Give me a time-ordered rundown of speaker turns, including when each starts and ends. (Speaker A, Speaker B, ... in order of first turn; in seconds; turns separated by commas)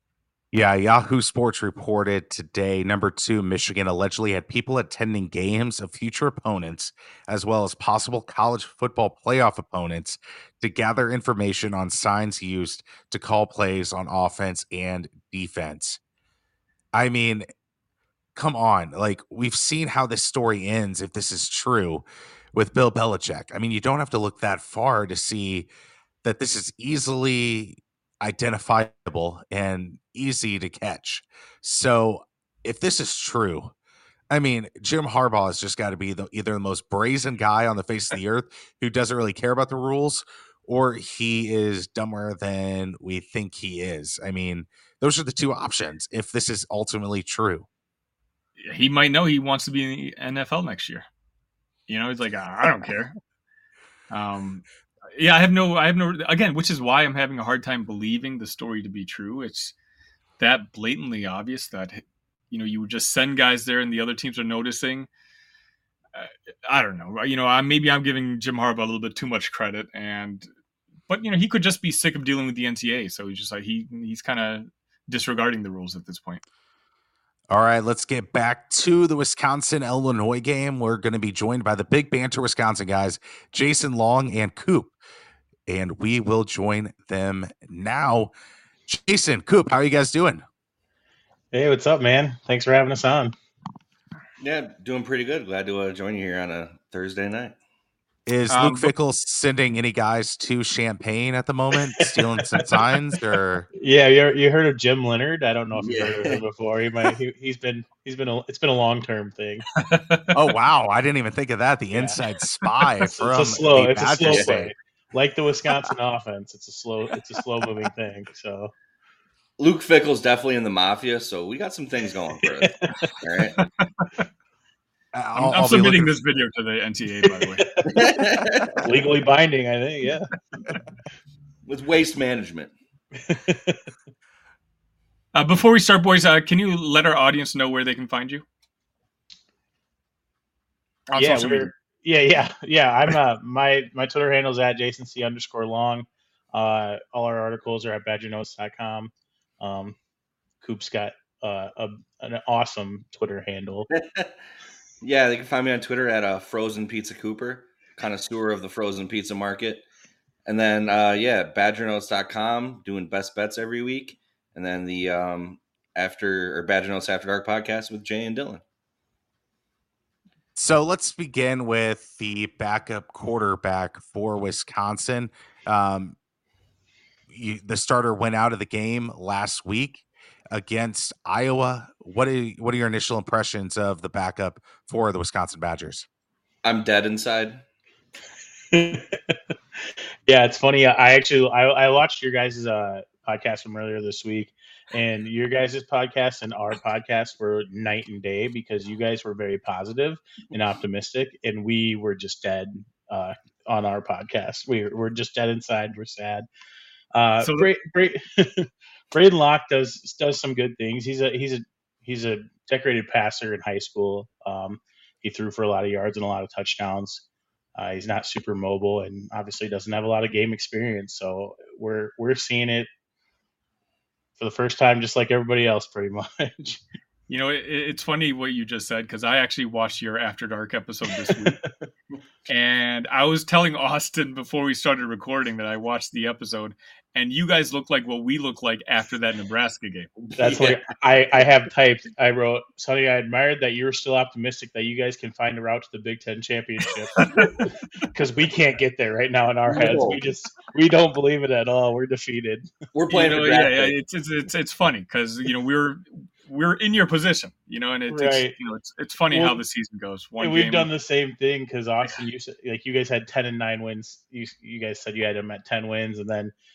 Speaker A: 0.5-16.0, Speaker A: 16.9-17.4, Speaker A: 18.3-25.7, Speaker A: 26.2-33.7, Speaker A: 34.3-47.7, Speaker B: 48.6-51.1, Speaker B: 51.9-53.1, Speaker B: 54.1-59.7, Speaker B: 60.4-65.1, Speaker B: 66.1-70.5, Speaker B: 71.1-76.4, Speaker A: 77.5-84.9, Speaker A: 85.7-88.3, Speaker A: 88.9-90.4, Speaker C: 91.5-93.3, Speaker D: 94.4-97.5, Speaker A: 98.2-103.7, Speaker B: 98.5-98.9, Speaker C: 102.0-102.6, Speaker C: 103.8-109.7, Speaker D: 105.7-106.4, Speaker B: 109.8-110.3, Speaker A: 110.3-114.7, Speaker C: 111.9-112.2, Speaker C: 113.2-118.7, Speaker D: 119.6-123.6, Speaker C: 122.5-123.1, Speaker B: 123.6-124.2, Speaker A: 125.1-126.2, Speaker B: 125.3-127.7, Speaker C: 127.3-130.7, Speaker D: 127.9-129.0, Speaker D: 131.6-132.7, Speaker C: 133.2-133.8, Speaker B: 135.3-138.4, Speaker B: 141.1-141.7, Speaker C: 141.2-150.0, Speaker C: 150.6-153.9, Speaker D: 153.9-154.3, Speaker D: 155.0-159.8, Speaker D: 160.4-168.6, Speaker A: 170.6-176.2, Speaker A: 177.3-186.1, Speaker D: 186.6-187.6, Speaker C: 188.7-189.4, Speaker C: 190.2-206.4, Speaker C: 207.1-217.2, Speaker B: 207.4-207.7, Speaker C: 217.8-222.9, Speaker C: 224.4-226.8, Speaker B: 227.3-231.6, Speaker C: 231.3-231.7, Speaker B: 232.5-240.1, Speaker D: 240.2-240.8, Speaker C: 240.4-252.8, Speaker B: 247.2-247.7, Speaker D: 249.7-250.2, Speaker D: 252.9-253.9, Speaker B: 253.1-260.9, Speaker C: 258.1-258.5, Speaker C: 259.3-259.6, Speaker C: 260.4-266.5